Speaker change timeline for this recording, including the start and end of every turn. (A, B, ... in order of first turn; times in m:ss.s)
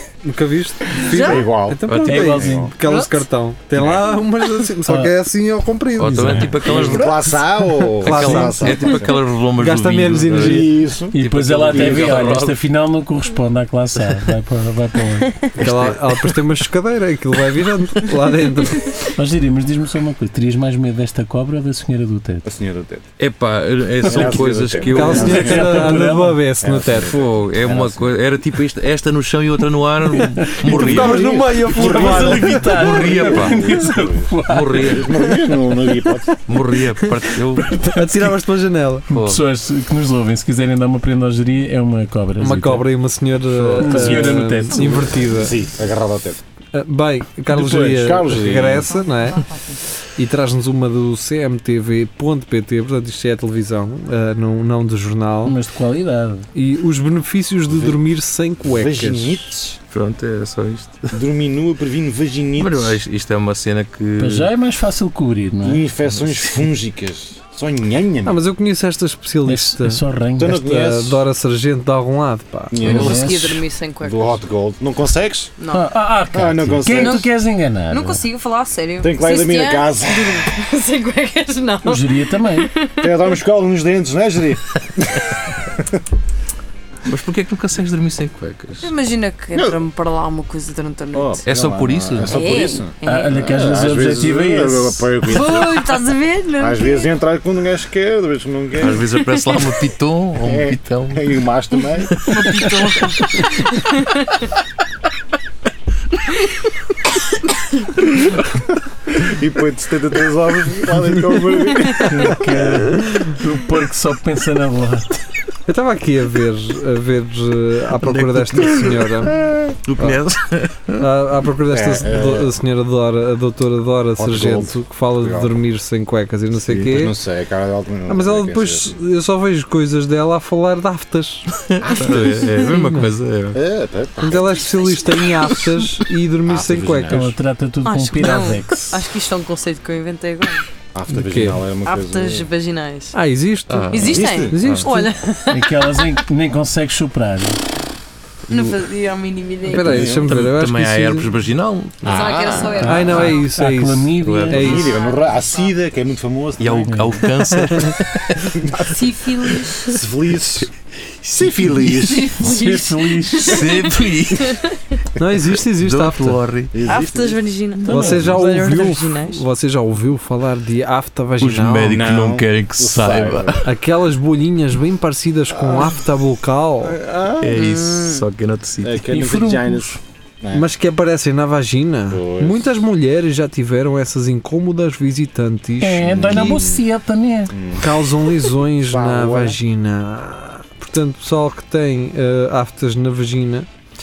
0:00.2-0:06.5 A
0:01.1-0:01.4 B
0:01.1-0:02.7 C
0:01.9-0:02.3 D
0:02.0-0:02.7 E
0:02.8-0:03.2 B
0:04.8-0:05.1 E
0:06.0-0:07.4 D
0:06.1-0:06.5 E
0:06.2-0:09.1 C
0:07.9-0:12.6 D
0:08.0-0:09.0 A
0:09.6-0:10.7 A
0:10.3-0:12.3 C
0:11.1-0:15.4 E
0:15.6-0:19.0 A
0:15.6-0:15.9 C
0:18.8-0:19.1 B
0:19.2-0:22.4 E
0:22.4-0:23.0 C
0:23.2-0:25.7 D
0:24.0-0:26.1 C
0:24.0-0:24.4 E
0:24.8-0:27.1 A
0:25.0-0:26.4 E
0:26.6-0:28.2 C
0:27.0-0:31.2 D
0:30.2-0:30.5 E
0:30.6-0:36.3 C
0:30.6-0:33.0 A
0:31.7-0:35.5 E
0:31.9-0:33.8 D
0:34.4-0:35.1 D
0:36.5-0:37.7 D
0:37.7-0:38.3 E
0:37.7-0:39.1 A
0:39.1-0:39.4 D
0:39.1-0:42.8 E
0:42.4-0:45.6 A
0:43.4-0:44.6 D
0:43.8-0:45.3 E
0:45.2-0:46.4 C
0:46.7-0:49.5 A
0:47.5-0:48.9 C
0:48.9-0:49.8 B
0:50.1-0:55.6 A
0:55.4-0:56.5 E
0:56.5-0:59.5 A
0:57.7-0:58.0 C
0:58.6-0:59.8 C
0:59.9-1:01.2 D
1:01.1-1:03.0 C
1:02.6-1:04.5 D
1:04.2-1:05.8 E
1:05.6-1:08.4 C
1:08.2-1:12.8 A
1:09.4-1:10.6 E
1:10.4-1:11.2 C
1:12.7-1:13.4 C
1:12.8-1:14.3 B
1:12.8-1:13.6 E
1:14.0-1:15.5 C
1:15.6-1:15.9 B
1:15.7-1:18.2 E
1:16.3-1:17.3 C
1:16.9-1:17.3 B
1:17.9-1:23.2 B
1:19.0-1:20.5 C
1:21.8-1:22.7 E
1:23.0-1:25.9 C
1:27.0-1:28.9 D
1:28.8-1:31.4 B
1:31.1-1:35.8 C
1:31.4-1:32.5 D
1:32.2-1:33.4 B
1:33.0-1:35.2 E
1:35.3-1:37.0 B
1:36.6-1:39.0 C
1:38.8-1:41.3 D
1:39.4-1:39.6 B
1:40.4-1:42.2 C
1:42.2-1:42.4 D
1:42.2-1:44.3 B
1:49.1-1:52.6 C
1:52.0-1:55.2 E
1:55.7-1:59.4 A
1:58.0-2:01.0 D
1:59.4-1:59.7 C
2:01.0-2:07.1 A
2:01.7-2:02.6 C
2:04.2-2:05.6 C
2:06.6-2:09.0 C
2:08.1-2:11.5 A
2:11.7-2:13.6 D
2:11.8-2:12.5 C
2:12.6-2:13.1 A
2:13.5-2:14.6 C
2:14.2-2:17.4 A
2:14.6-2:15.5 B
2:16.4-2:17.3 C
2:17.1-2:19.0 E
2:17.8-2:20.6 B
2:20.9-2:22.5 C
2:21.1-2:21.6 A
2:21.8-2:23.2 B
2:23.1-2:25.1 A
2:23.7-2:24.8 D
2:23.9-2:25.9 B
2:24.0-2:24.5 C
2:25.5-2:27.6 E
2:28.5-2:30.2 B
2:29.6-2:31.3 A
2:29.8-2:30.3 C
2:30.2-2:32.4 D
2:32.0-2:33.0 C
2:32.1-2:33.4 B
2:32.8-2:34.9 E
2:32.8-2:34.9 A
2:34.2-2:34.7 D
2:34.5-2:37.2 C
2:34.9-2:35.4 B
2:36.6-2:38.8 D
2:36.9-2:37.2 E
2:37.5-2:37.9 A
2:38.6-2:38.9 C
2:38.8-2:39.8 B
2:39.5-2:40.0 D
2:39.8-2:40.7 C
2:41.1-2:42.3 D
2:41.3-2:42.4 C
2:42.0-2:45.0 B
2:42.4-2:43.6 E
2:43.4-2:44.6 D
2:45.2-2:46.4 A
2:45.8-2:46.7 D
2:46.7-2:47.4 C
2:46.8-2:49.4 B
2:47.8-2:48.3 E
2:47.9-2:52.0 A
2:51.4-2:53.6 D
2:51.9-2:53.6 C
2:53.6-2:57.0 A
2:55.5-2:56.0 C
2:56.8-2:57.6 C
2:57.4-2:59.0 D
2:57.6-2:58.2 B
2:58.8-3:00.7 C
2:59.1-3:00.0 E
3:00.5-3:06.6 A
3:02.1-3:02.7 C
3:05.8-3:07.5 E
3:06.0-3:06.8 C
3:07.5-3:07.9 C
3:07.8-3:13.7 A
3:08.8-3:09.6 C